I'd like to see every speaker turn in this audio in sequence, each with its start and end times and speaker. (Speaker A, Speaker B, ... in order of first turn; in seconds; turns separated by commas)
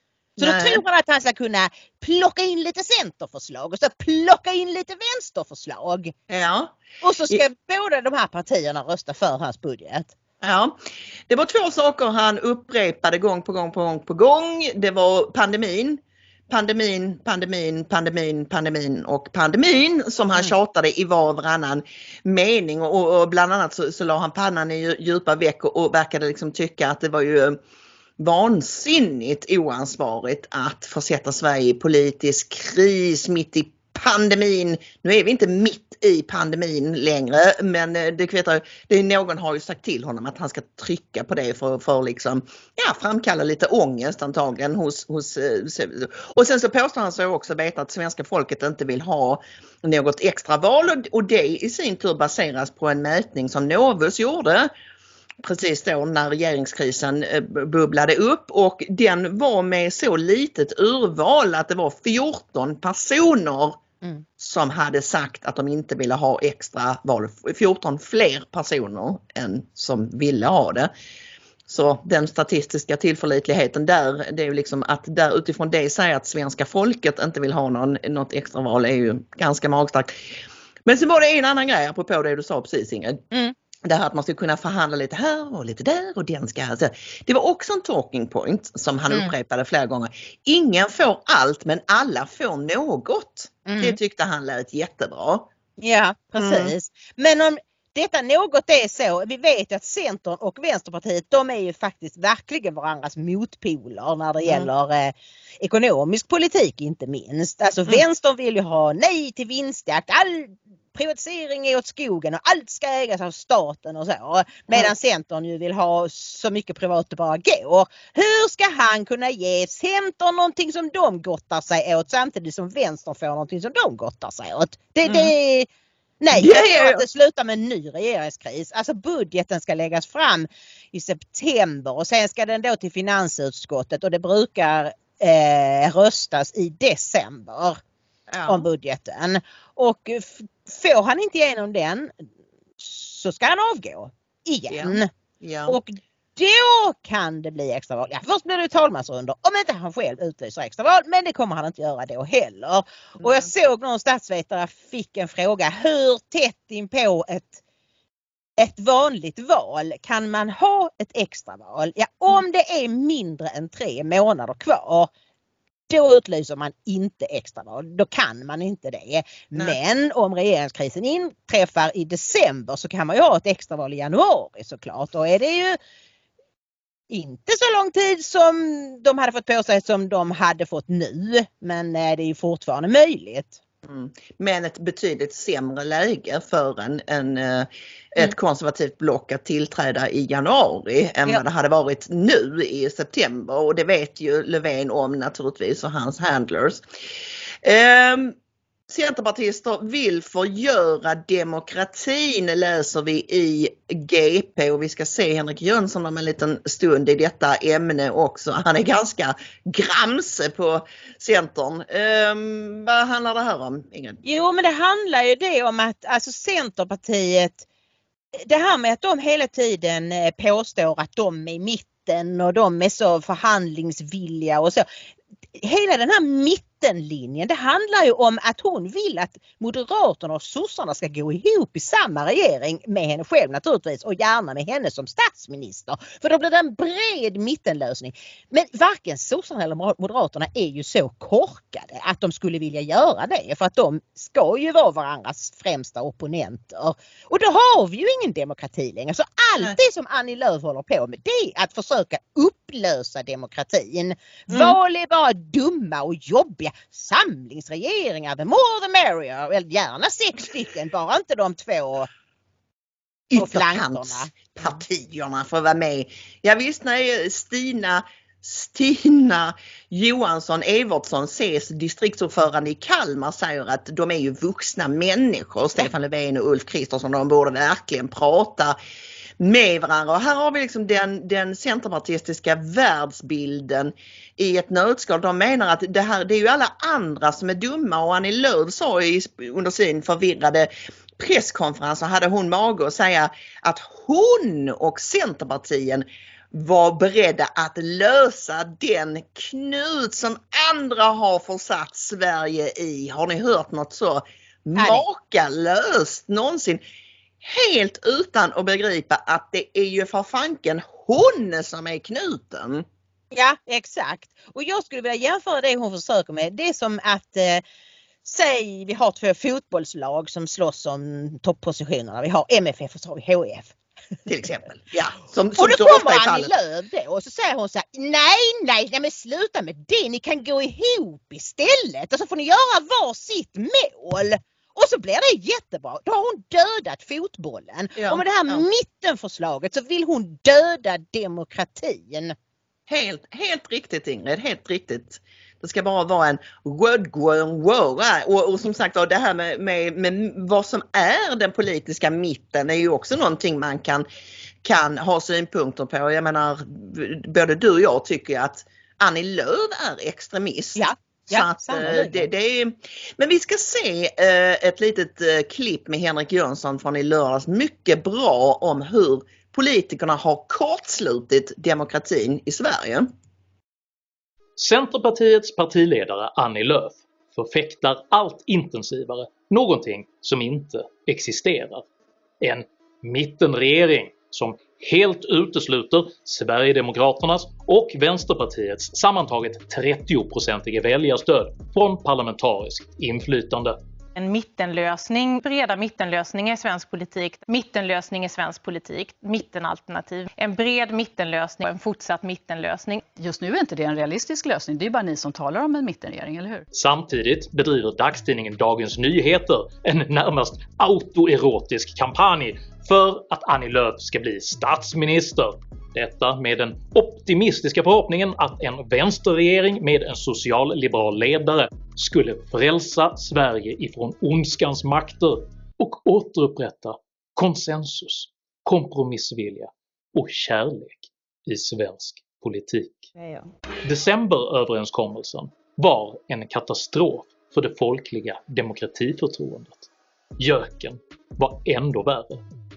Speaker A: 0.4-0.8, Speaker B: 0.4-6.1, Speaker A: 6.3-6.8, Speaker B: 7.0-10.1, Speaker A: 10.4-10.8, Speaker A: 11.3-27.6, Speaker A: 28.2-54.7, Speaker A: 55.4-63.8, Speaker A: 64.4-70.9, Speaker A: 71.7-80.3, Speaker A: 80.8-83.2, Speaker A: 83.9-95.5, Speaker B: 93.7-94.0, Speaker B: 95.8-125.7, Speaker A: 96.4-96.7, Speaker A: 125.0-125.3, Speaker B: 126.2-137.8, Speaker A: 126.3-127.0, Speaker A: 138.3-138.7, Speaker B: 138.5-142.1, Speaker B: 142.8-145.1, Speaker A: 144.7-145.8, Speaker B: 145.7-157.6, Speaker A: 153.2-153.5, Speaker B: 158.6-165.1, Speaker B: 165.9-175.8, Speaker B: 177.1-183.6, Speaker A: 183.8-196.8, Speaker A: 197.6-198.3, Speaker A: 198.9-214.2, Speaker B: 214.2-217.6, Speaker B: 218.5-224.8, Speaker B: 225.6-262.1, Speaker A: 254.5-254.8, Speaker A: 263.3-278.8, Speaker B: 263.4-264.8, Speaker A: 279.4-306.8, Speaker B: 304.8-305.0, Speaker A: 307.4-312.9, Speaker B: 313.3-317.6, Speaker B: 318.2-323.7, Speaker A: 324.3-326.5, Speaker B: 325.6-342.4, Speaker A: 338.0-338.6, Speaker A: 342.9-354.1, Speaker A: 354.6-373.1, Speaker B: 360.8-362.3, Speaker C: 374.6-381.9, Speaker C: 382.4-393.8, Speaker D: 394.1-403.0, Speaker E: 403.0-406.7, Speaker C: 406.7-433.1, Speaker C: 433.8-442.4